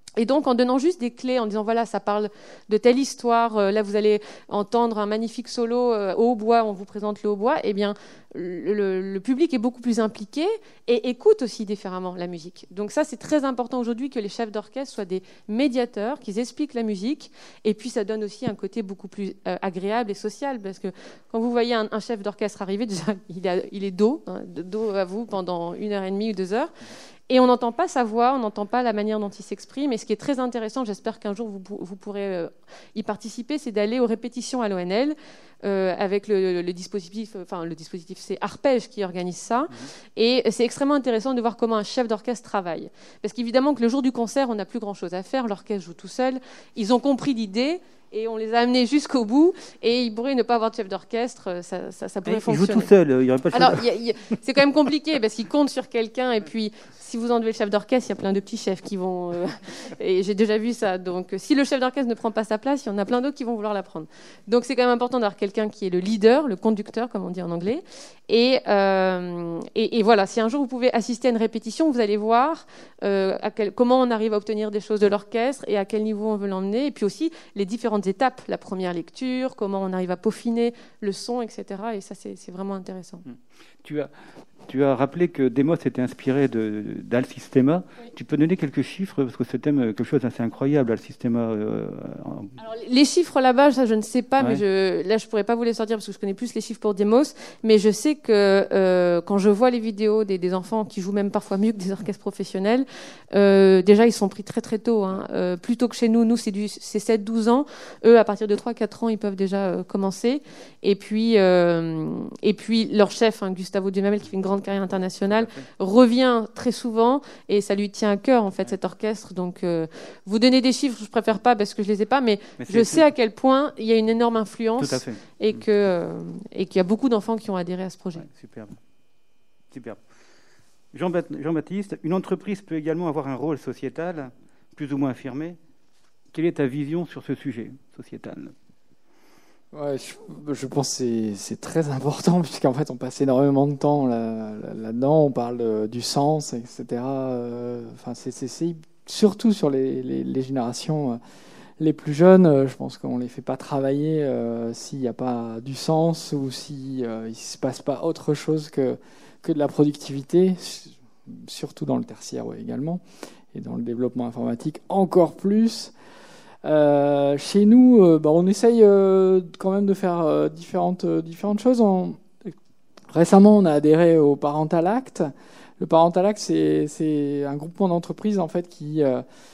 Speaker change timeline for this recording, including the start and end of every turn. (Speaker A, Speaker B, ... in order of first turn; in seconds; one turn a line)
Speaker A: 0.2-26.7
Speaker A: 27.3-52.9
Speaker B: 52.2-53.8
Speaker A: 53.5-83.2
Speaker B: 83.2-84.1
Speaker B: 84.7-92.5
Speaker A: 92.6-128.2
Speaker B: 122.6-123.1
Speaker B: 124.8-125.6
Speaker B: 128.2-128.8
Speaker B: 129.7-130.0
Speaker B: 130.9-135.6
Speaker B: 136.3-138.5
Speaker C: 139.7-151.2
Speaker C: 151.8-163.0
Speaker C: 163.5-165.9
Speaker C: 166.6-172.5
Speaker C: 173.1-179.2